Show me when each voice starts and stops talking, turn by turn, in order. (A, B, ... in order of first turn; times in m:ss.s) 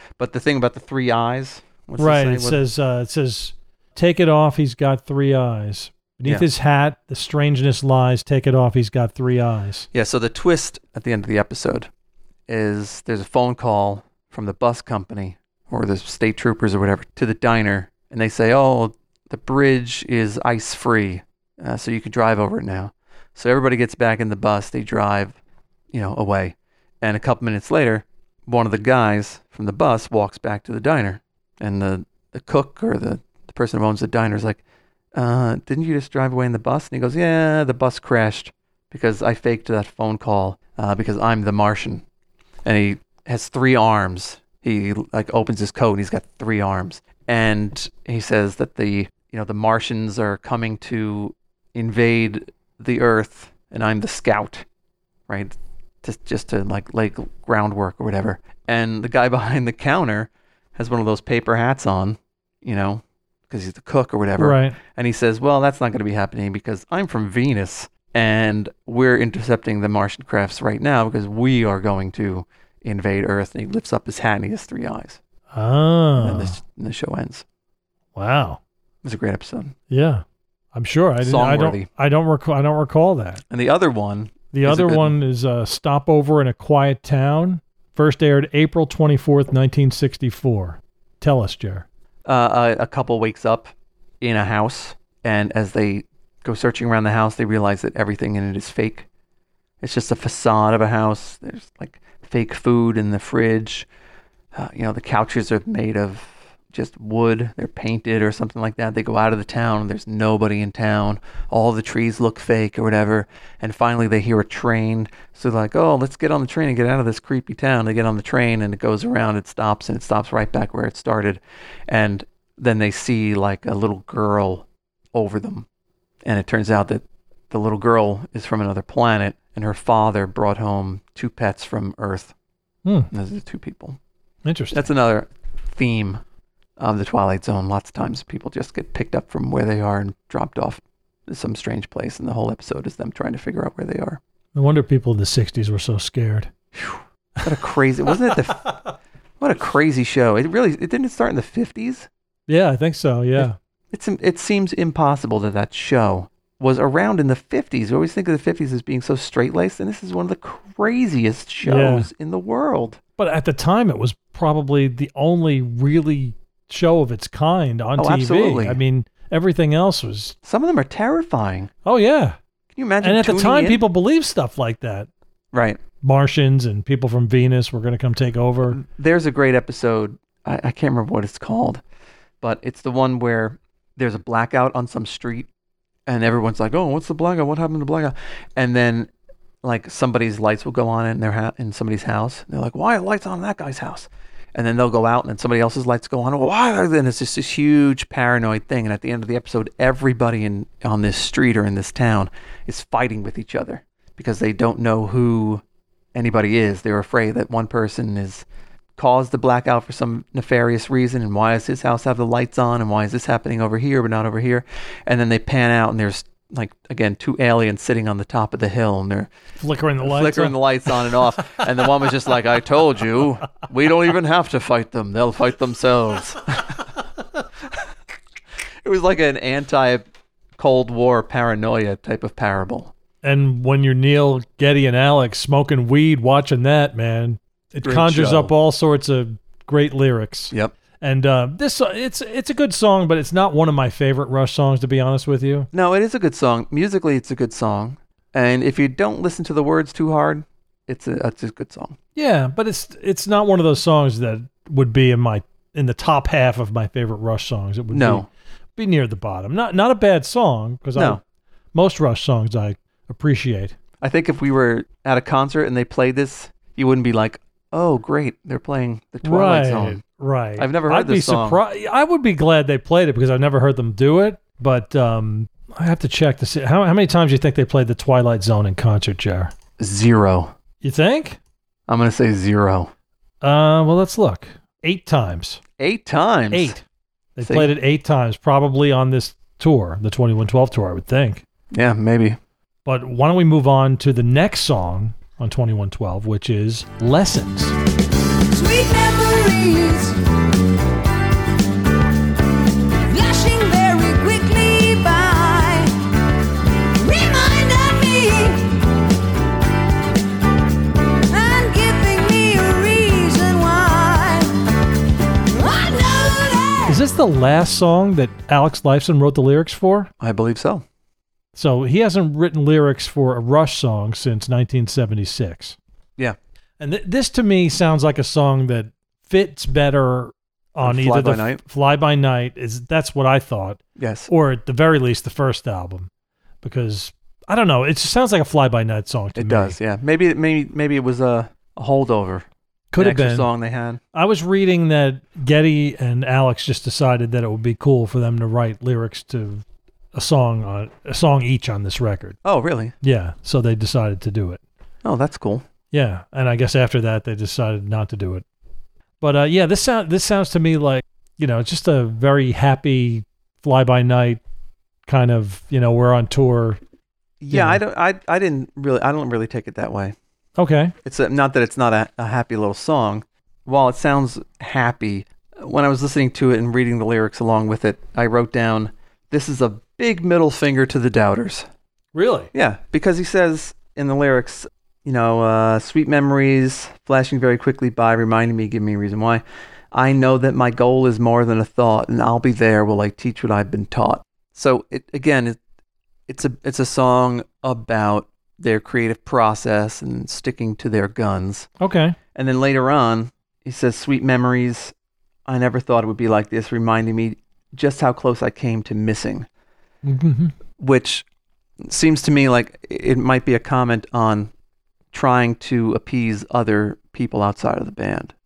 0:00.2-0:02.6 A
0:02.0-0:09.9 B
0:09.9-0:11.9 A
0:12.5-0:25.4 A
0:25.9-0:34.6 A
0:35.2-0:42.0 A
0:42.6-0:54.6 A
0:55.3-1:15.2 A
1:04.4-1:04.8 B
1:15.5-1:16.6 B
1:16.2-1:17.4 A
1:18.2-1:18.6 B
1:19.0-1:19.8 A
1:19.9-1:20.2 B
1:20.7-1:23.4 B
1:21.2-1:21.9 A
1:23.5-1:25.1 A
1:24.5-1:31.9 B
1:32.2-1:39.1 A
1:39.8-1:43.9 A
1:44.5-2:05.7 A
2:06.2-2:12.3 A
2:12.8-2:13.1 B
2:13.1-2:14.0 A
2:14.4-2:14.8 B
2:14.7-2:16.2 A
2:16.8-2:24.2 A
2:24.6-2:26.5 B
2:26.8-2:28.7 A
2:29.4-2:32.1 A
2:32.5-2:33.6 B
2:33.4-2:43.0 A
2:41.6-2:42.1 B
2:43.2-2:50.4 B
2:48.0-2:48.8 A
2:50.4-2:51.7 A
2:51.8-2:52.4 B
2:52.8-2:53.8 A
2:53.0-2:55.1 B
2:55.5-2:55.8 A
2:56.0-2:58.8 B
2:58.7-3:01.8 A
3:02.4-3:05.5 A
3:06.1-3:09.1 A
3:09.6-3:25.6 A
3:26.1-3:28.4 A
3:29.0-3:39.3 A
3:39.6-3:40.6 B
3:40.0-3:46.8 A
3:48.8-3:52.9 A
3:53.2-4:05.7 B
3:57.8-3:58.5 A
4:05.7-4:12.0 A
4:12.2-4:21.2 B
4:17.9-4:18.3 A
4:21.0-4:21.2 A
4:21.7-4:23.8 B
4:24.0-4:30.0 A
4:29.2-4:39.5 B
4:30.6-4:31.6 A
4:39.8-4:40.5 A
4:40.8-4:41.4 B
4:41.9-4:42.9 A
4:43.4-4:45.6 B
4:45.8-4:46.8 A
4:46.5-4:46.8 B
4:47.4-4:51.4 B
4:47.4-4:47.7 A
4:51.7-4:52.4 A
4:52.8-4:57.8 B
4:58.5-5:00.2 C
5:03.0-5:06.0 C
5:07.0-5:08.9 C
5:11.3-5:14.6 C
5:15.5-5:17.0 C
5:16.9-5:20.1 B
5:20.2-5:20.8 A
5:21.6-5:25.8 B
5:26.8-5:36.1 B
5:30.8-5:31.6 A
5:34.0-5:34.3 A
5:36.6-5:39.8 B
5:39.4-5:44.0 A
5:42.9-5:43.5 B
5:44.1-5:52.4 B
5:52.4-5:53.0 A
5:53.0-5:54.6 B
5:55.0-5:55.6 A
5:55.9-5:58.4 B
5:59.2-6:04.4 B
6:05.1-6:06.8 B
6:07.4-6:10.2 A
6:07.5-6:07.8 B
6:10.6-6:11.0 B
6:11.0-6:21.7 A
6:22.1-6:22.5 B
6:22.5-6:35.6 A
6:36.3-6:41.7 A
6:41.8-6:42.2 B
6:42.4-6:44.9 A
6:45.5-6:49.5 A
6:50.0-6:50.5 B
6:50.8-6:51.3 A
6:51.8-6:54.5 A
6:55.1-6:58.3 A